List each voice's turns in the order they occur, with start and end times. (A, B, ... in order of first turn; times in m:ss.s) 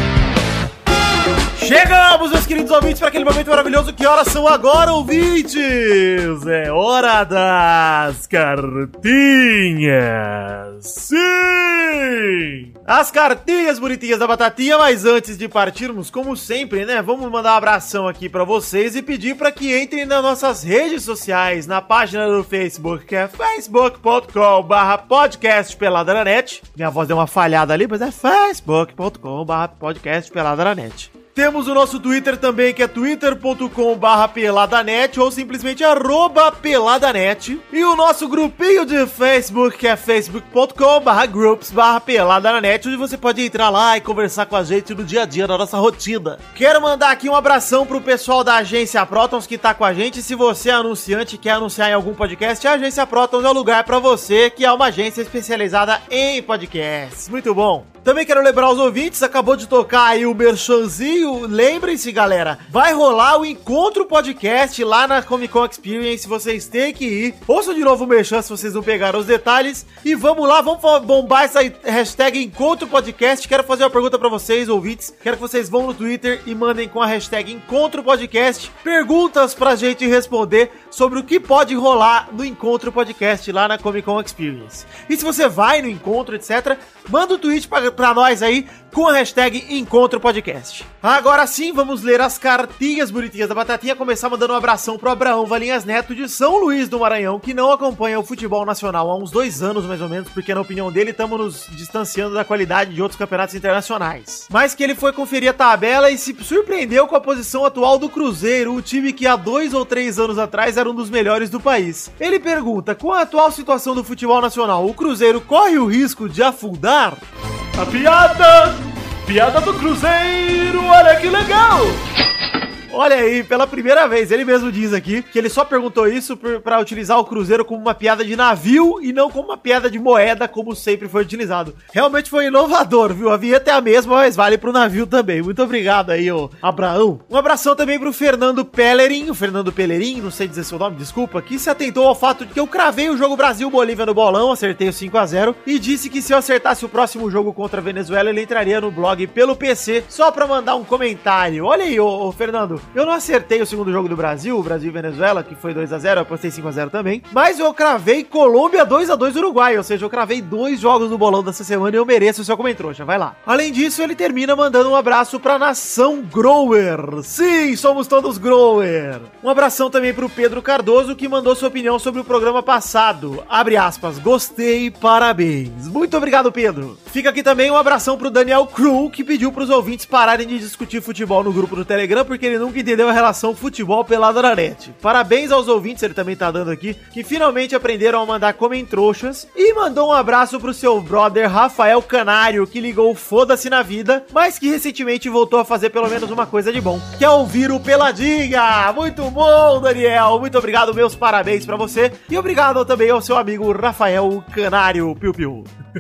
0:01.6-0:12.3 A
0:12.8-1:57.2 A
1:57.8-2:02.0 A
2:02.9-3:25.7 A